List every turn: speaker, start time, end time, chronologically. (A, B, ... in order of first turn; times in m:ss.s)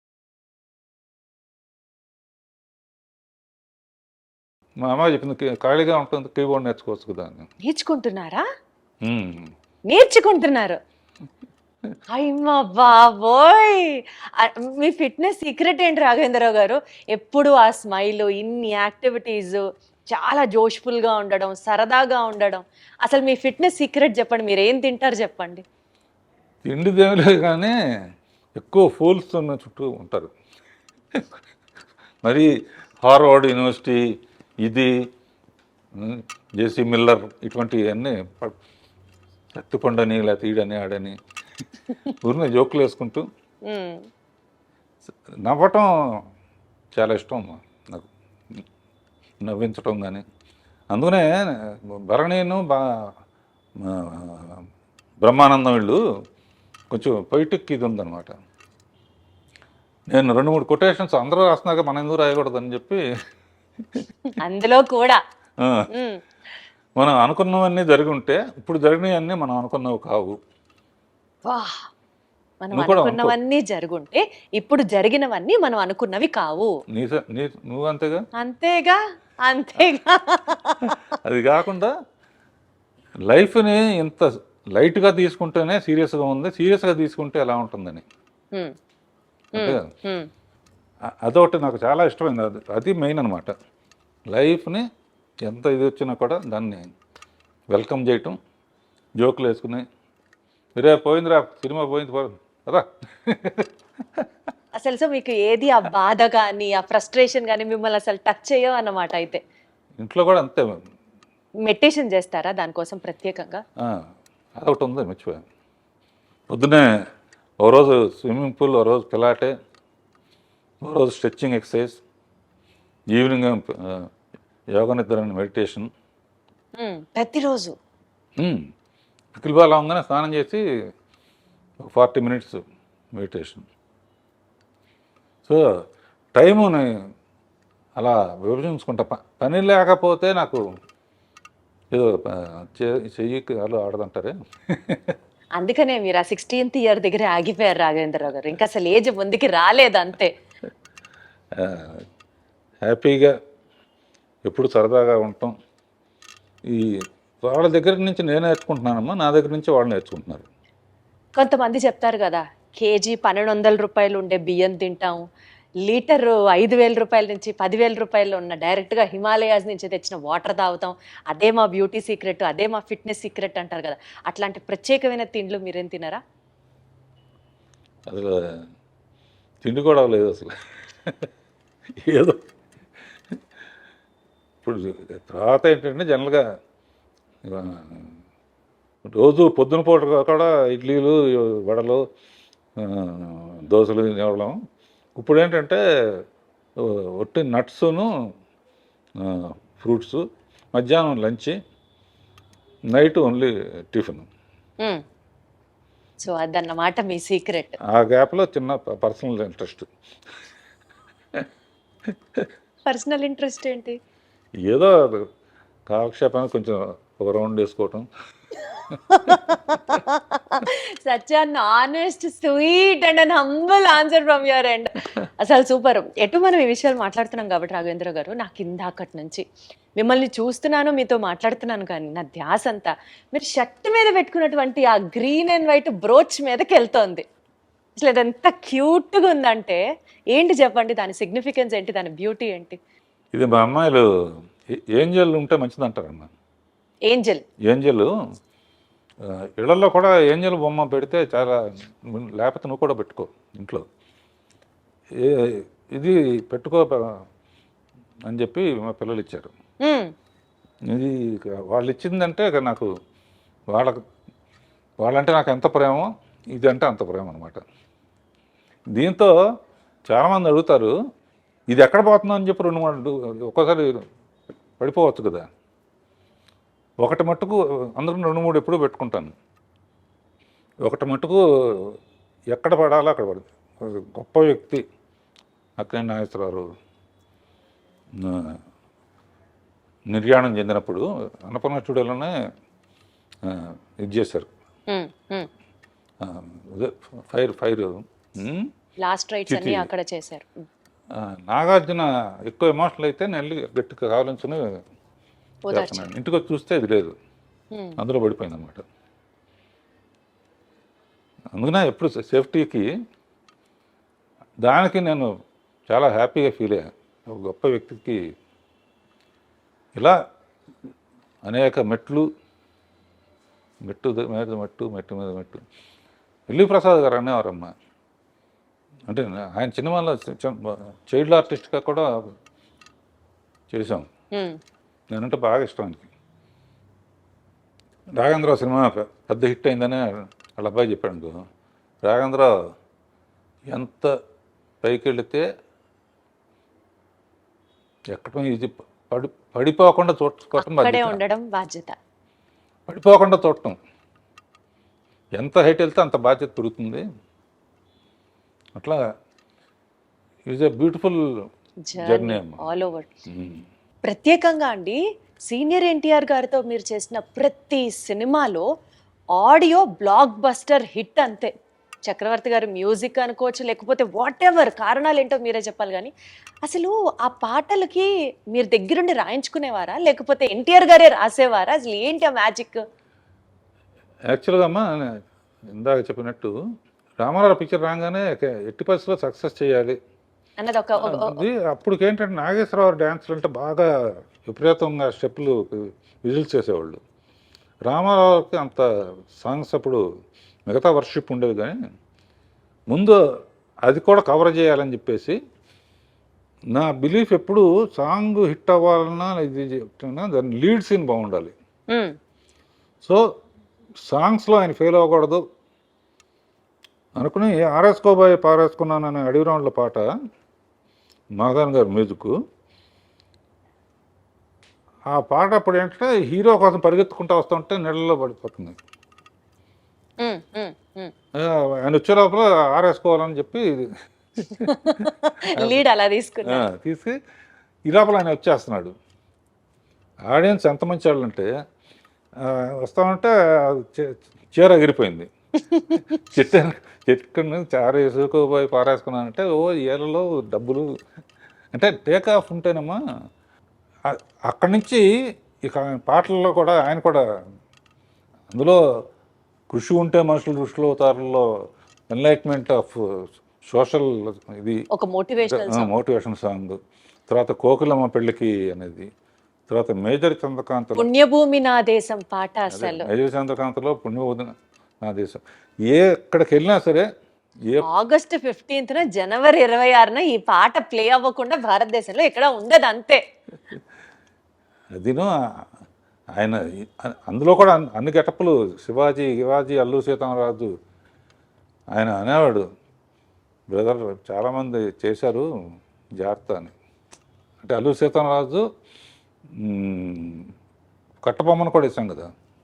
0:04.8-0:07.5 A
0:07.6-0:08.4 B
0:09.0-0:09.5 A
0:09.9-0:10.8 B
0:12.1-0:19.6 B
0:20.1-0:25.6 B
0:26.6-0:27.7 A
0:28.6-0:30.3 A
0:32.2-0:32.5 A
0:33.0-0:34.0 A
0:34.6-0:34.9 A
0:36.0-0:38.5 A
0:39.5-0:41.2 A
0:42.2-0:43.2 A
0:43.6-0:44.0 B
0:45.4-0:45.9 A
0:47.0-0:48.6 A
0:49.4-0:50.2 A
0:50.9-0:52.8 A
0:53.8-0:54.6 A
0:55.2-0:56.0 A
0:56.9-0:58.3 A
1:00.1-1:03.0 A
1:04.4-1:05.2 B
1:05.6-1:05.9 A
1:05.9-1:06.2 B
1:07.0-1:10.4 A
1:11.4-1:11.9 B
1:12.6-1:16.7 B
1:12.7-1:13.3 A
1:16.9-1:18.2 A
1:18.4-1:21.0 B
1:20.8-1:21.9 A
1:23.3-1:28.0 A
1:29.5-1:30.3 B
1:29.6-1:29.8 A
1:31.2-1:33.5 A
1:34.3-1:34.8 A
1:35.4-1:36.8 A
1:37.7-1:38.4 A
1:39.2-1:39.8 A
1:40.8-1:44.3 A
1:44.8-1:49.4 B
1:50.0-1:50.8 A
1:51.6-1:53.6 B
1:54.6-1:55.4 A
1:56.5-1:56.8 A
1:57.6-1:59.5 A
2:00.8-2:02.0 A
2:03.1-2:04.1 A
2:04.7-2:05.9 A
2:06.8-2:07.7 B
2:08.4-2:08.6 A
2:09.4-2:10.6 A
2:11.9-2:12.6 A
2:13.2-2:13.6 A
2:16.4-2:16.9 A
2:18.0-2:20.6 A
2:21.9-2:25.2 A
2:25.6-2:30.3 B
2:31.6-2:32.0 A
2:32.8-2:33.3 A
2:34.5-2:35.5 A
2:37.4-2:40.5 A
2:41.4-2:45.2 B
2:45.9-2:56.2 B
2:58.1-2:58.4 A
2:59.6-3:01.3 A
3:02.0-3:02.4 A
3:04.6-3:06.4 A
3:07.4-3:08.1 A
3:09.1-3:12.0 A
3:12.8-3:14.6 A
3:15.2-3:16.2 A
3:16.8-3:18.1 A
3:19.2-3:20.2 A
3:20.7-3:21.6 A
3:22.9-3:24.3 A
3:26.2-3:27.8 B
3:27.9-3:29.9 A
3:32.8-3:34.0 B
3:34.6-3:35.2 A
3:35.9-3:38.1 A
3:39.1-3:49.4 B
3:50.0-3:57.2 B
3:58.0-3:59.8 B
4:00.3-4:02.8 B
4:03.3-4:04.0 A
4:05.0-4:06.3 A
4:07.1-4:07.4 B
4:07.7-4:08.1 A
4:09.6-4:13.8 A
4:15.2-4:17.2 A
4:18.3-4:19.5 A
4:19.8-4:20.1 B
4:20.9-4:22.9 A
4:23.7-4:24.0 A
4:25.0-4:27.6 A
4:28.9-4:29.3 A
4:30.1-4:30.9 A
4:31.7-4:34.0 A
4:34.8-4:35.5 A
4:37.0-4:39.3 A
4:40.8-4:41.9 A
4:42.5-4:44.8 A
4:45.8-4:46.6 A
4:48.2-4:48.6 A
4:50.1-4:52.3 A
4:53.4-4:54.5 A
4:54.9-4:55.5 B
4:56.2-4:58.7 A
4:59.0-5:00.5 B
4:59.5-4:59.9 A
5:01.1-5:04.8 A
5:05.7-5:06.1 B
5:05.7-5:07.1 A
5:07.7-5:08.0 B
5:08.0-5:08.8 A
5:11.5-5:12.8 A
5:14.6-5:15.3 A
5:15.9-5:18.2 A
5:21.4-5:22.2 A
5:23.8-5:25.6 A
5:26.5-5:27.7 A
5:29.1-5:32.1 A
5:33.7-5:34.1 A
5:35.1-5:36.1 A
5:38.2-5:41.4 A
5:42.0-5:42.5 A
5:43.7-5:44.1 A
5:44.8-5:45.4 A
5:48.1-5:51.2 A
5:50.6-5:51.9 B
5:52.9-5:53.8 A
5:55.4-5:57.0 A
6:00.5-6:01.2 A
6:01.9-6:03.1 B
6:02.0-6:02.6 A
6:03.3-6:03.6 A
6:04.0-6:05.0 B
6:05.5-6:08.6 B
6:09.4-6:11.5 B
6:12.0-6:16.1 B
6:16.6-6:22.8 B
6:24.3-6:25.1 A
6:25.7-6:26.5 A
6:27.2-6:30.0 A
6:30.6-6:31.4 B
6:31.0-6:33.8 A
6:34.4-6:37.0 A
6:37.9-6:38.8 A
6:39.4-6:40.0 A
6:40.7-6:41.8 A
6:42.9-6:43.2 A
6:43.8-6:45.4 A
6:46.7-6:51.5 A
6:54.1-6:55.4 A
6:57.2-7:00.0 A
7:01.4-7:02.3 A
7:05.1-7:08.8 A
7:10.2-7:11.1 B
7:11.4-7:13.8 A
7:14.4-7:15.1 A
7:14.6-7:16.6 B
7:16.5-7:17.1 A
7:17.9-7:18.9 A
7:20.3-7:21.5 A
7:22.4-7:25.3 A
7:25.7-7:26.0 B
7:25.9-7:30.8 A
7:31.7-7:33.0 A
7:34.1-7:35.0 A
7:35.6-7:37.2 A
7:38.5-7:38.8 A
7:39.7-7:41.4 A
7:42.1-7:44.8 A
7:44.9-7:45.9 B
7:45.5-7:46.8 A
7:47.3-7:49.1 A
7:49.7-7:51.1 A
7:51.0-7:53.1 B
7:52.7-7:54.5 A
7:55.0-7:57.1 A
7:57.9-8:03.2 B
8:05.0-8:05.3 A
8:06.4-8:10.7 A
8:11.9-8:12.6 A
8:13.7-8:15.4 A
8:16.2-8:16.7 A
8:17.6-8:18.6 A
8:19.6-8:20.4 A
8:21.2-8:22.3 A